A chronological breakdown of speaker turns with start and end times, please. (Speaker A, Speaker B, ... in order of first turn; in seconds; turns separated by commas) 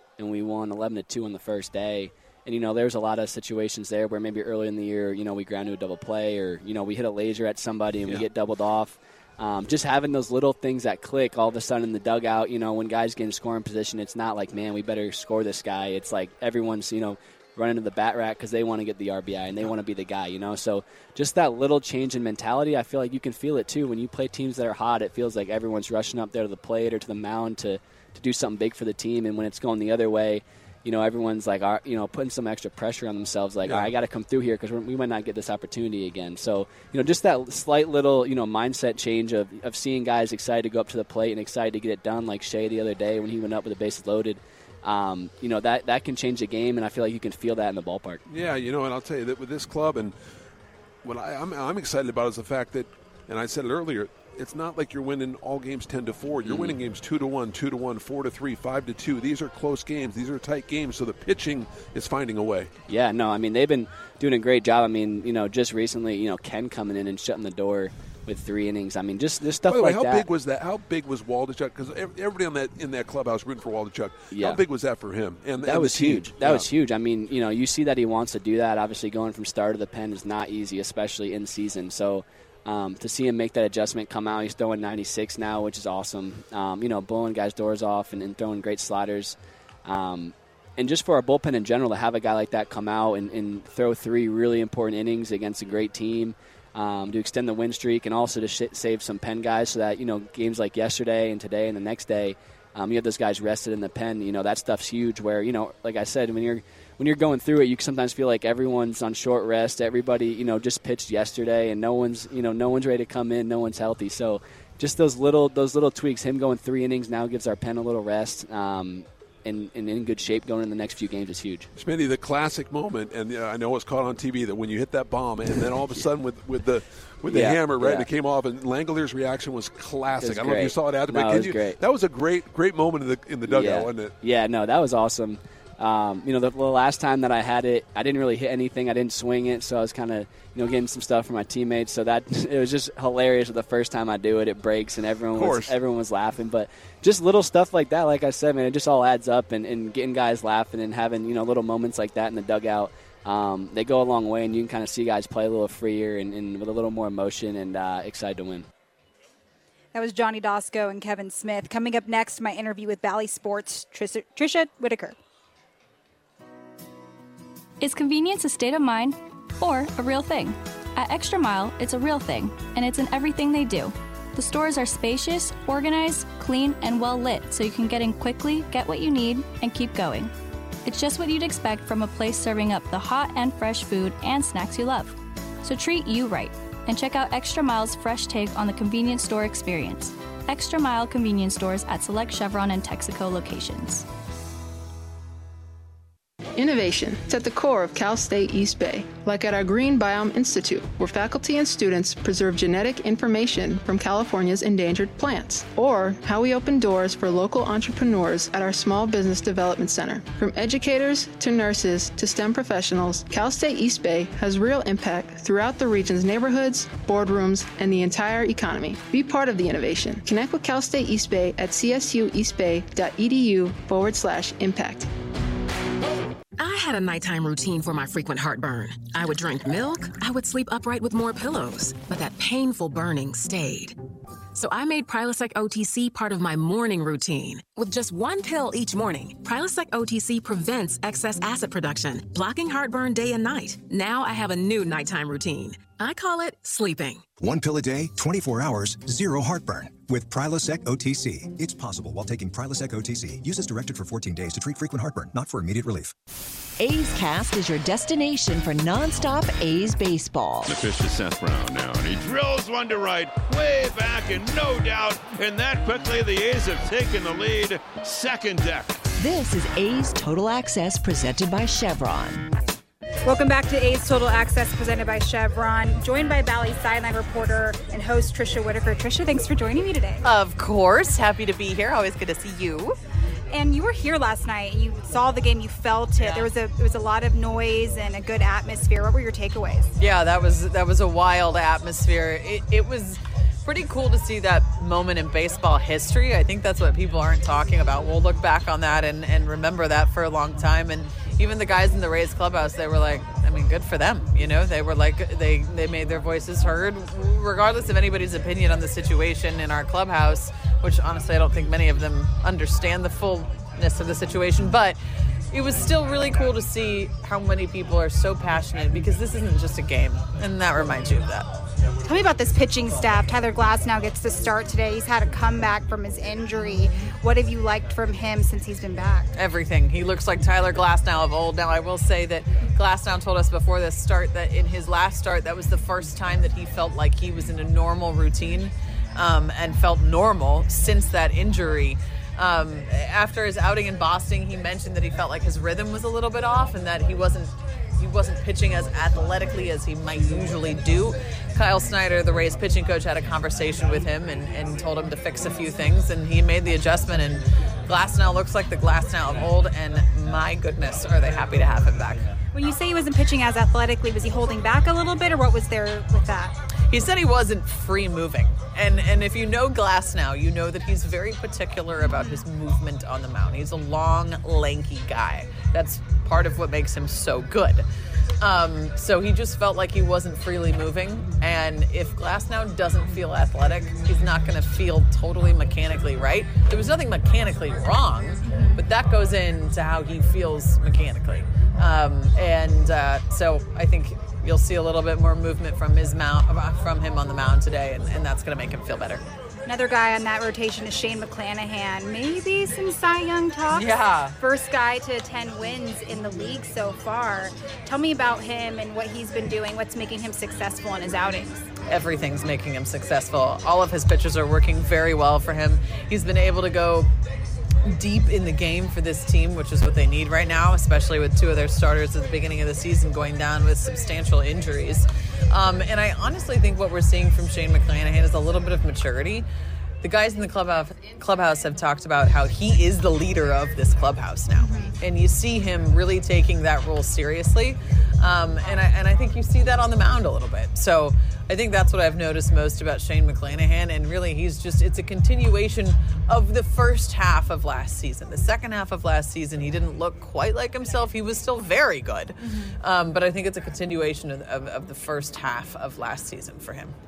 Speaker A: 0.2-48.2, Speaker B: 33.6-33.9, Speaker B: 48.3-50.1, Speaker B: 51.0-62.7, Speaker A: 56.4-56.8, Speaker A: 62.9-70.2, Speaker B: 69.7-76.7, Speaker A: 74.3-74.6, Speaker A: 75.6-121.7, Speaker B: 121.8-134.1, Speaker A: 127.3-128.1, Speaker A: 130.2-131.8, Speaker A: 133.5-158.7, Speaker B: 145.3-145.8, Speaker C: 159.9-165.2, Speaker D: 167.8-180.3, Speaker D: 180.8-194.0, Speaker E: 196.6-225.1, Speaker F: 226.6-234.0, Speaker F: 234.5-247.2, Speaker G: 247.4-256.1, Speaker H: 256.8-260.7, Speaker I: 260.6-269.0, Speaker H: 269.2-272.4, Speaker C: 273.2-280.2, Speaker J: 280.2-283.0, Speaker C: 283.5-289.9, Speaker J: 286.2-286.5, Speaker J: 290.0-315.0, Speaker J: 315.5-321.5, Speaker C: 322.0-329.3, Speaker J: 329.4-362.3, Speaker C: 362.5-366.6, Speaker J: 366.9-377.9, Speaker J: 378.4-399.2, Speaker C: 399.6-411.6, Speaker J: 403.7-404.4, Speaker J: 411.9-417.1, Speaker J: 417.9-429.4, Speaker J: 430.0-456.9, Speaker C: 434.6-434.9